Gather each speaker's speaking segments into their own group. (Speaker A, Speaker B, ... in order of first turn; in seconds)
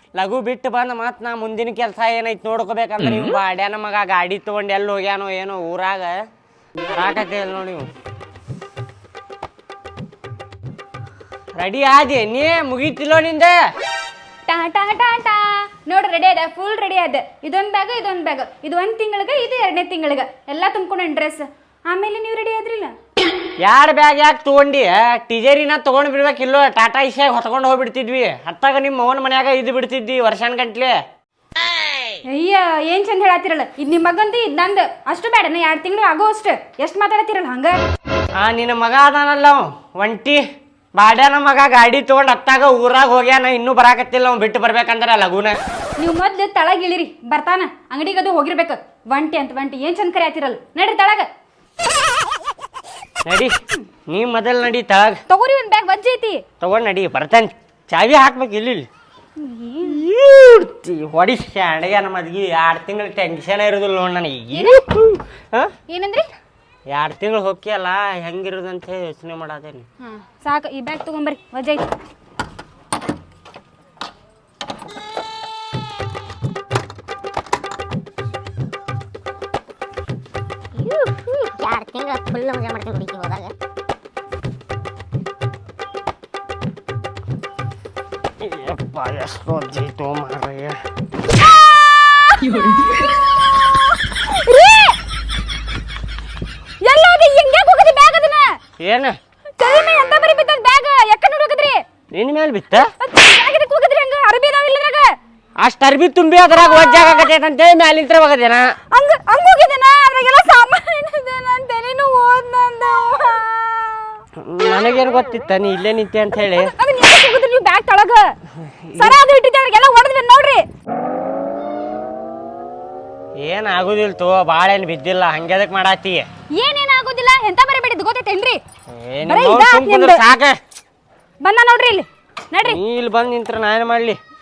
Speaker A: 0.1-6.2, 6.9-7.9, 11.6-13.6, 23.6-31.0, 38.4-40.4, 40.9-45.6, 53.2-53.5, 54.1-55.2, 56.6-58.9, 59.8-65.7, 66.9-69.9, 88.4-90.8, 98.8-99.2, 102.1-102.9, 105.6-108.8, 114.4-116.7, 118.8-119.2, 123.4-126.3, 128.9-130.6, 132.6-134.2
Speaker B: 14.5-22.9, 32.3-37.8, 46.0-51.3, 55.3-56.4, 59.4-60.0, 64.5-64.8, 65.9-66.3, 70.0-71.9, 91.3-95.0, 96.8-98.5, 99.6-101.8, 103.0-105.1, 106.4-107.3, 108.9-114.2, 116.3-118.3, 118.9-120.6, 126.6-128.6, 129.2-130.2, 131.4-132.8
Speaker C: 80.8-83.5